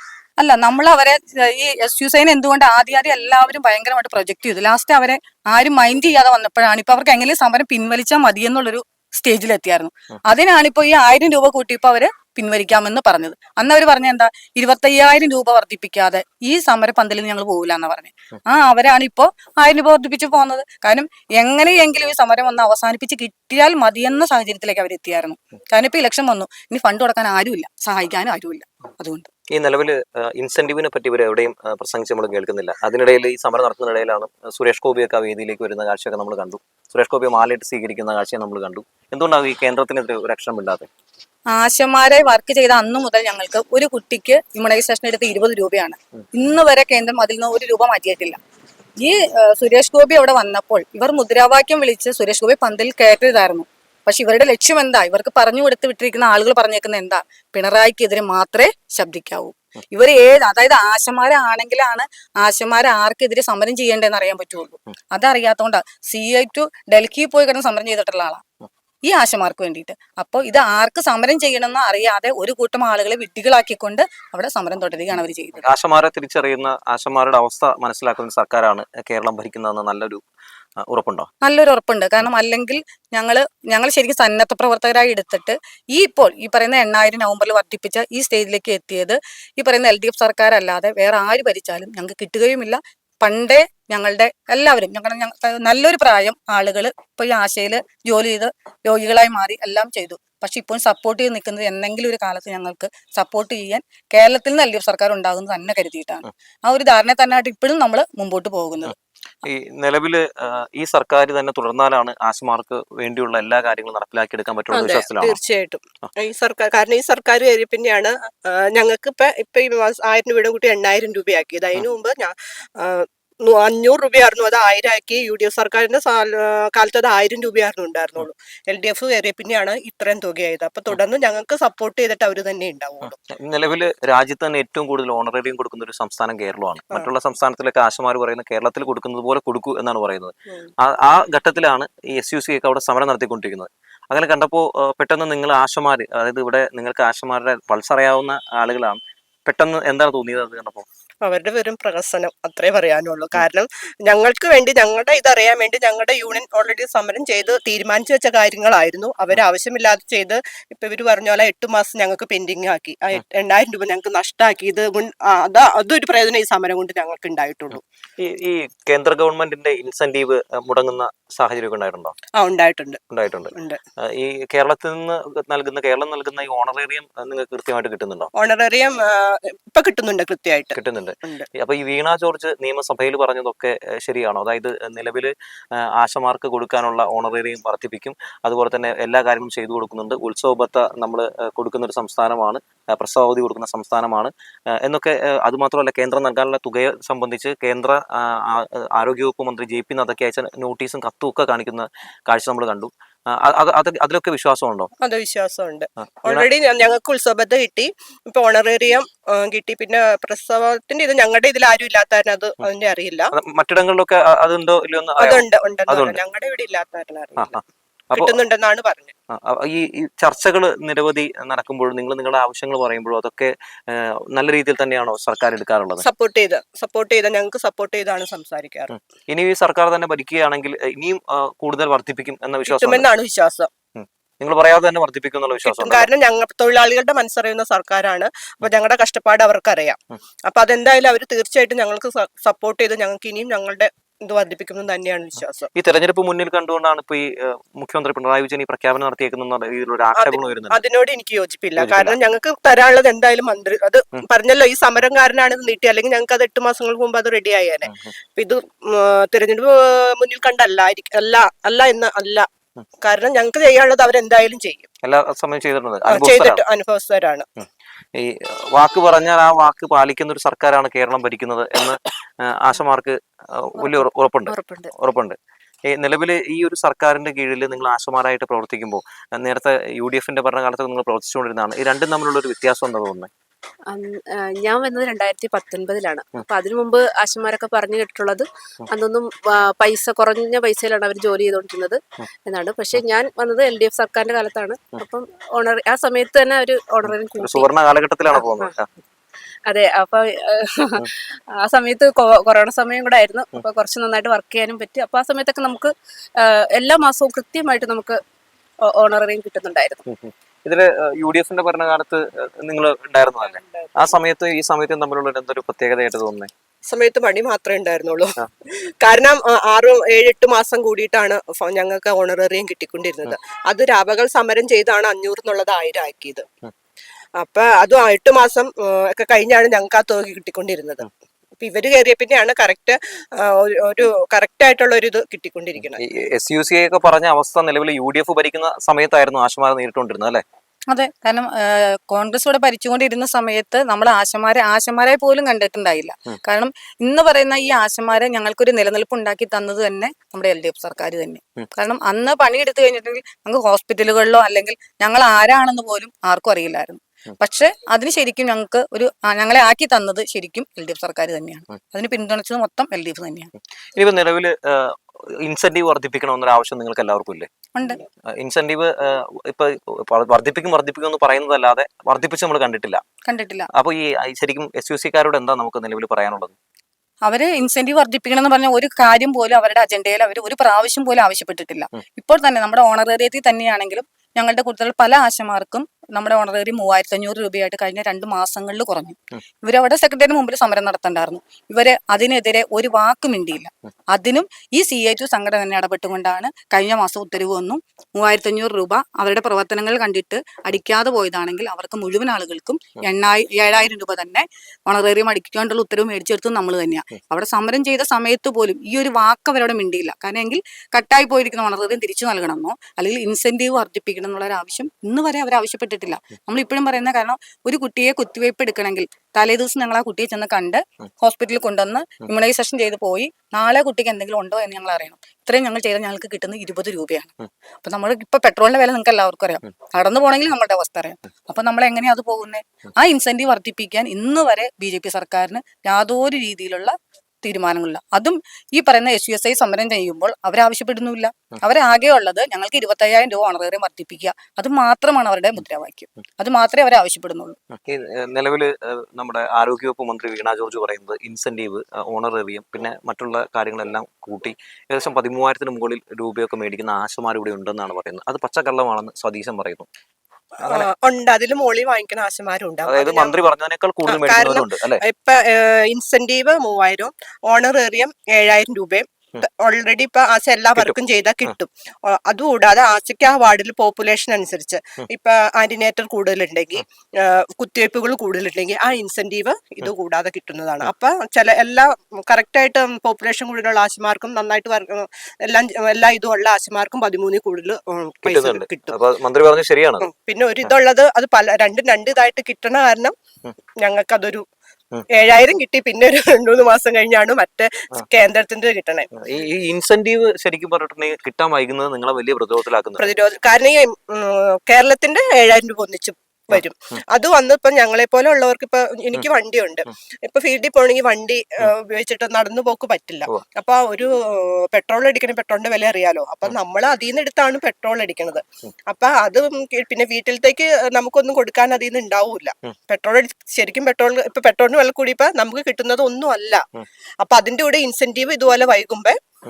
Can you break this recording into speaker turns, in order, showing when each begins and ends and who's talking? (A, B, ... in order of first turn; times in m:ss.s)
0:00.4-0:29.3 A
0:29.5-0:40.9 B
0:41.5-0:48.4 A
0:49.0-1:08.4 A
1:09.1-1:15.6 A
1:15.6-1:20.2 B
1:20.8-1:21.3 B
1:21.4-1:48.9 A
1:49.4-1:55.4 B
1:54.7-2:13.2 C
2:13.2-2:30.8 B
2:31.2-2:47.8 C
2:48.2-2:52.2 B
2:52.4-2:53.0 C
2:53.1-2:58.3 B
2:53.6-2:53.8 C
2:58.4-3:01.5 C
3:00.8-3:24.9 B
3:25.0-3:33.3 C
3:33.3-3:36.2 B
3:35.2-3:37.6 C
3:38.1-3:38.4 B
3:38.1-3:39.1 C
3:39.3-3:46.0 B
3:46.0-3:48.9 C
3:48.9-3:53.1 B
3:52.7-3:53.7 C
3:54.0-3:56.1 B
3:55.6-4:05.7 C
4:05.8-4:10.8 B
4:10.2-4:22.5 C
4:11.8-4:12.2 B
4:23.0-4:24.9 C
4:25.0-4:26.6 B
4:26.1-4:27.5 C
4:28.2-4:35.4 B
4:33.8-4:34.9 D
4:35.9-4:43.3 B
4:43.9-4:57.7 D
4:57.4-4:58.9 B
4:58.3-4:58.7 D
4:59.7-5:08.2 D
5:08.8-5:10.0 D
5:10.1-5:16.5 B
5:13.6-5:13.9 C
5:16.9-5:26.4 C
5:27.4-5:31.1 C
5:31.6-5:36.0 C
5:36.0-5:40.4 B
5:40.9-6:03.5 A
6:04.0-6:07.5 B
6:07.8-6:08.0 A
6:08.4-6:13.0 B
6:13.3-6:13.7 A
6:13.7-6:16.6 B
6:17.2-7:07.3 A
7:07.8-7:27.6 A
7:27.8-7:39.9 B
7:40.6-7:43.4 C
7:42.8-7:45.0 B
7:44.1-8:09.0 C
8:08.2-8:10.1 B
8:10.0-8:13.1 C
8:13.8-8:14.4 C
8:15.1-8:19.1 C
8:19.2-8:23.1 B
8:23.0-8:46.6 C
8:47.2-8:49.2 C